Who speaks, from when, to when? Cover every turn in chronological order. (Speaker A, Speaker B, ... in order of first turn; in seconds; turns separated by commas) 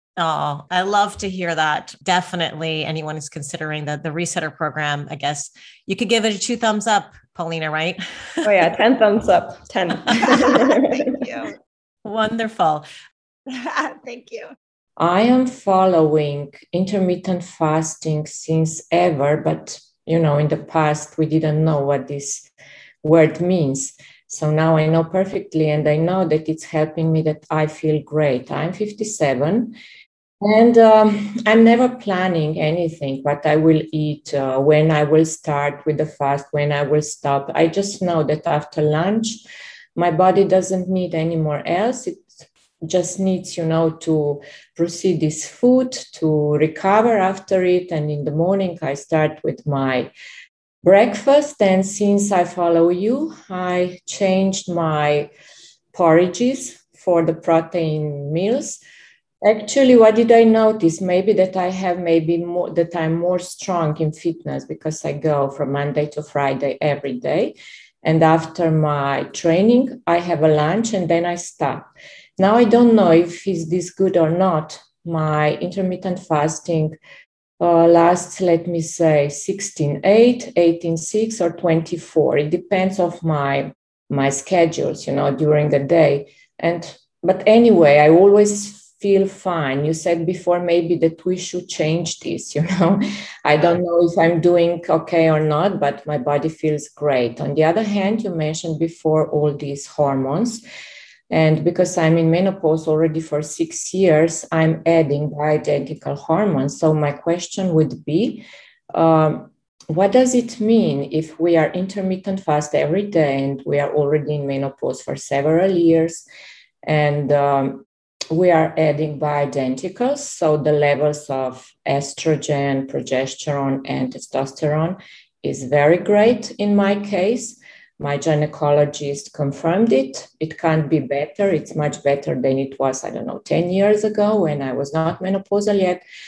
Speaker A: 0.2-8.7, Speaker B: 8.4-11.1, Speaker C: 10.2-11.6, Speaker A: 12.1-12.9, Speaker C: 13.5-14.6, Speaker D: 15.0-22.5, Speaker D: 23.0-29.7, Speaker D: 30.4-39.4, Speaker D: 40.0-50.1, Speaker D: 50.8-55.3, Speaker D: 55.9-58.8, Speaker D: 59.4-77.0, Speaker D: 77.6-100.6, Speaker D: 101.3-116.2, Speaker D: 116.8-136.0